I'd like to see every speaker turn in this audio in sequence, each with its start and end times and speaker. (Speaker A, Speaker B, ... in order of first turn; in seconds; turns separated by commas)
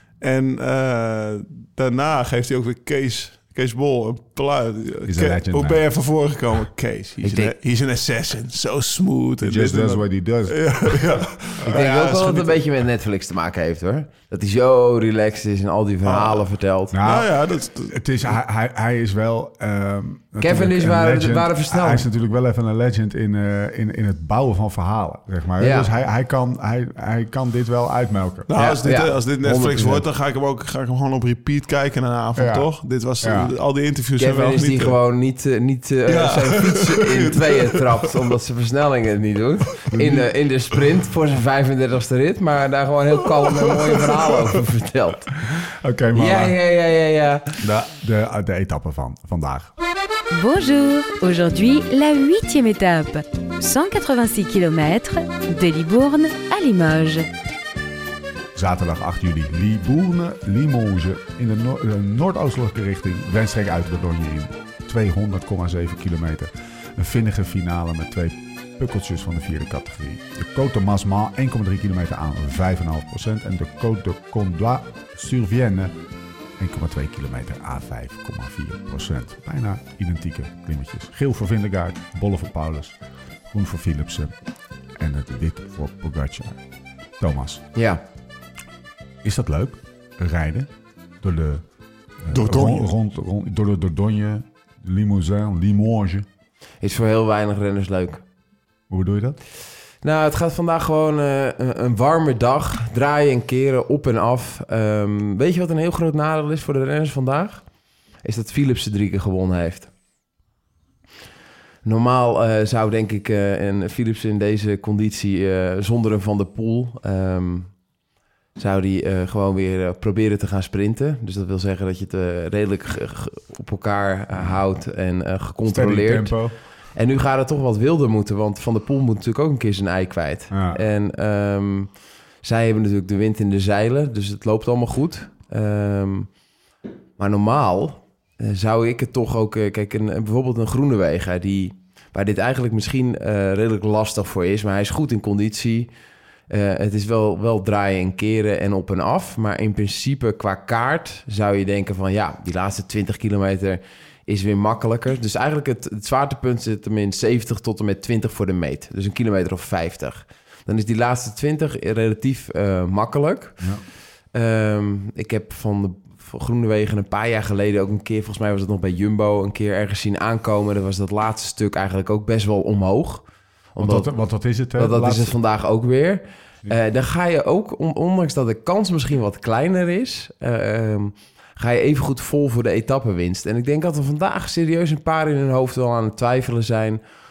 Speaker A: 0.2-12.6, Speaker B: 5.0-5.8, Speaker C: 7.2-7.5, Speaker B: 9.4-11.1, Speaker C: 11.6-17.0, Speaker A: 16.0-16.5, Speaker B: 16.9-28.5, Speaker A: 17.0-18.0, Speaker C: 20.4-22.1, Speaker C: 25.6-25.9, Speaker A: 28.5-35.0, Speaker C: 28.5-30.0, Speaker B: 32.4-32.7, Speaker B: 33.2-33.5, Speaker C: 34.2-45.3, Speaker A: 36.0-38.1, Speaker B: 39.9-40.3, Speaker B: 45.8-46.6, Speaker C: 46.1-47.6, Speaker B: 47.6-49.7, Speaker D: 50.3-57.3, Speaker B: 58.5-75.9, Speaker B: 76.6-83.0, Speaker B: 83.5-84.3, Speaker B: 85.0-86.6, Speaker B: 87.2-87.6, Speaker C: 87.7-88.0, Speaker B: 89.2-90.7, Speaker B: 91.2-91.6, Speaker B: 92.2-96.2, Speaker A: 92.3-92.9, Speaker C: 96.8-98.2, Speaker B: 98.9-99.4, Speaker C: 100.0-107.6, Speaker C: 108.2-109.9, Speaker C: 111.8-117.7, Speaker C: 118.5-126.4, Speaker B: 125.7-126.5, Speaker C: 126.9-131.9, Speaker B: 130.5-130.8, Speaker C: 132.4-136.3, Speaker C: 137.2-145.9, Speaker C: 146.5-163.7, Speaker C: 164.3-174.1, Speaker B: 173.8-175.3, Speaker C: 174.7-187.0